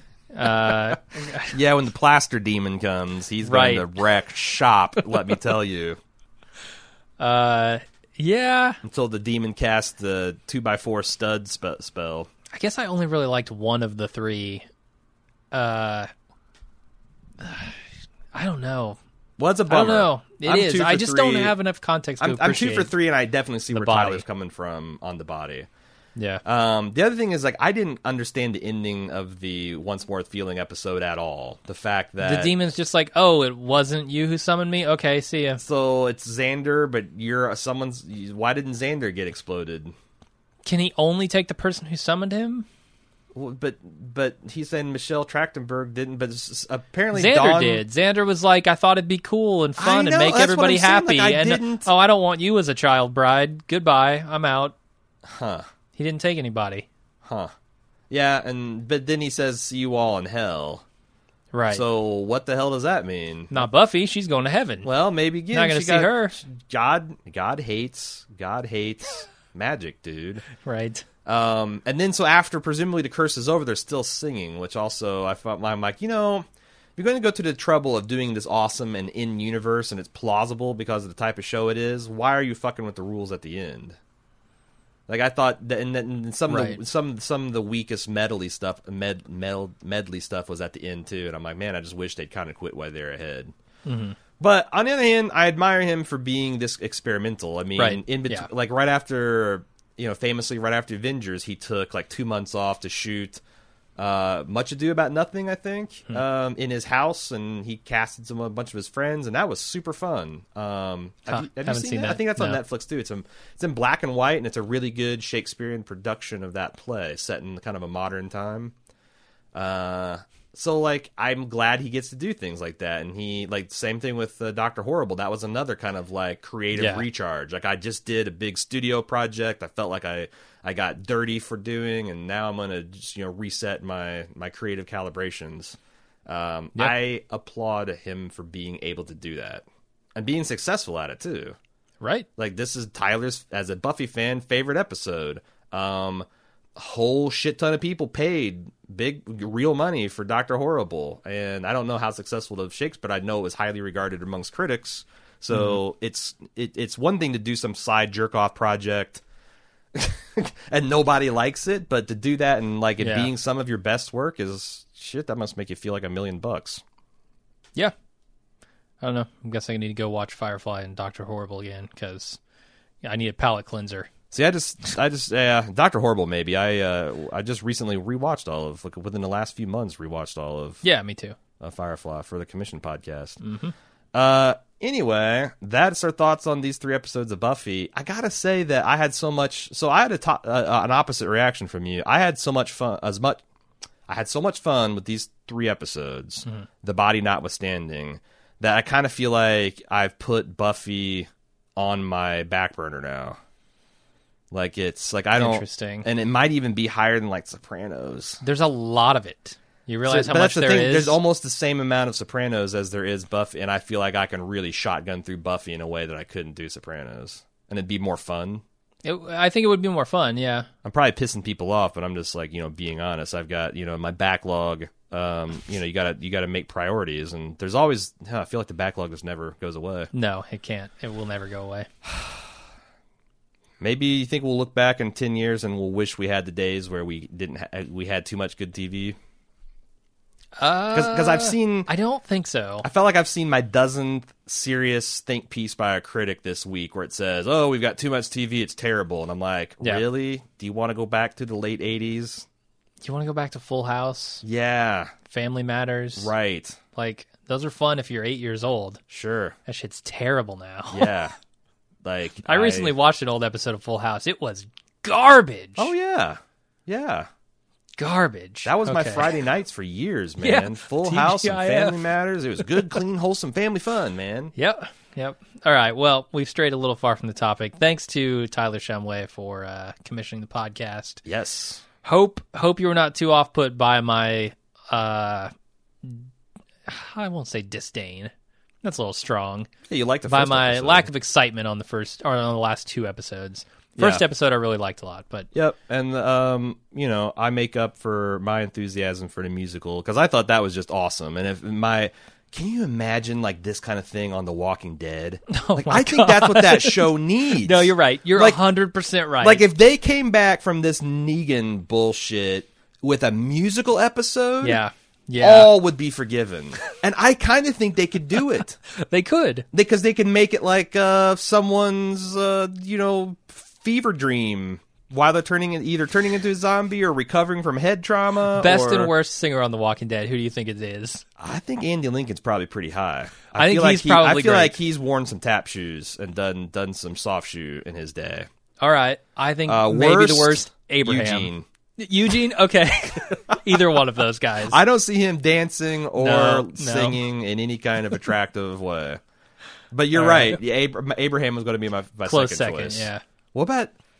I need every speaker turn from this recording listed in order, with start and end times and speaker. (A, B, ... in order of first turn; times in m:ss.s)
0:00.3-0:01.5 A
0:01.4-0:06.0 B
0:03.4-0:03.9 A
0:07.2-0:08.8 A
0:08.8-0:12.3 B
0:12.5-0:14.6 A
0:15.5-0:16.1 A
0:17.4-0:17.8 A
0:18.3-0:19.0 A
0:19.4-0:21.5 B
0:19.7-0:22.9 A
0:22.2-0:25.7 B
0:23.7-0:24.2 A
0:26.2-0:26.4 A
0:26.4-0:32.5 B
0:32.2-0:35.6 A
0:35.6-0:39.9 B
0:40.6-0:42.6 A
0:43.3-0:47.8 B
0:47.1-0:54.7 A
0:49.8-0:51.9 B
0:55.2-0:55.6 B
0:56.0-0:56.9 A
0:57.2-0:57.5 B
0:58.1-1:00.8 B
1:01.5-1:01.8 A
1:01.7-1:03.7 B
1:03.5-1:04.9 A
1:04.8-1:10.5 B
1:05.5-1:06.4 A
1:10.6-1:11.0 A
1:11.2-1:16.4 B
1:17.0-1:24.0 B
1:25.1-1:33.5 B
1:26.5-1:26.8 A
1:33.8-1:34.2 A
1:34.4-1:43.4 B
1:37.8-1:38.5 A
1:44.0-1:58.7 B
1:51.3-1:52.6 A
1:59.5-2:21.6 B
2:06.7-2:07.0 A
2:22.0-2:22.3 A
2:22.4-2:39.2 B
2:35.5-2:35.8 A
2:39.9-2:46.8 B
2:43.0-2:43.3 A
2:49.0-2:52.4 A
2:53.0-2:54.1 A
2:54.3-3:00.8 B
3:00.8-3:01.4 A
3:01.6-3:03.4 B
3:03.4-3:03.7 A
3:04.1-3:13.4 B
3:14.1-3:23.4 B
3:24.5-3:28.4 B
3:25.4-3:26.1 A
3:28.4-3:31.2 A
3:30.0-3:38.6 B
3:39.0-3:40.7 A
3:40.8-3:50.1 B
3:50.1-3:51.9 A
3:52.1-3:52.4 B
3:53.8-3:59.2 B
4:00.6-4:02.9 A
4:00.9-4:01.9 B
4:02.8-4:12.4 B
4:13.0-4:14.4 A
4:14.4-4:15.1 B
4:15.3-4:16.3 A
4:16.2-4:16.8 B
4:16.9-4:19.0 A
4:19.1-4:19.6 B
4:19.6-4:21.1 A
4:20.9-4:21.3 B
4:22.0-4:22.9 B
4:22.5-4:25.9 A
4:25.8-4:27.3 B
4:28.0-4:29.3 A
4:28.6-4:34.5 B
4:30.4-4:32.0 A
4:32.6-4:33.0 A
4:34.6-4:41.2 A
4:41.2-4:41.8 B
4:42.0-4:45.5 A
4:46.0-4:46.3 A
4:46.8-4:48.3 A
4:48.8-4:49.7 A
4:49.9-4:51.1 B
4:50.3-4:55.5 A
4:54.0-4:54.2 B
4:55.5-5:08.6 B
5:05.5-5:09.6 A
5:09.4-5:14.8 B
5:14.6-5:15.7 A
5:15.4-5:18.8 B
5:18.9-5:19.6 A
5:19.7-5:29.1 B
5:28.5-5:31.2 A
5:31.4-5:38.5 B
5:33.6-5:34.7 A
5:38.8-5:44.8 A
5:39.6-5:41.6 B
5:43.5-5:44.0 B
5:44.6-5:49.2 B
5:46.2-5:47.2 A
5:49.9-5:53.9 B
5:50.1-5:50.6 A
5:52.2-5:53.2 A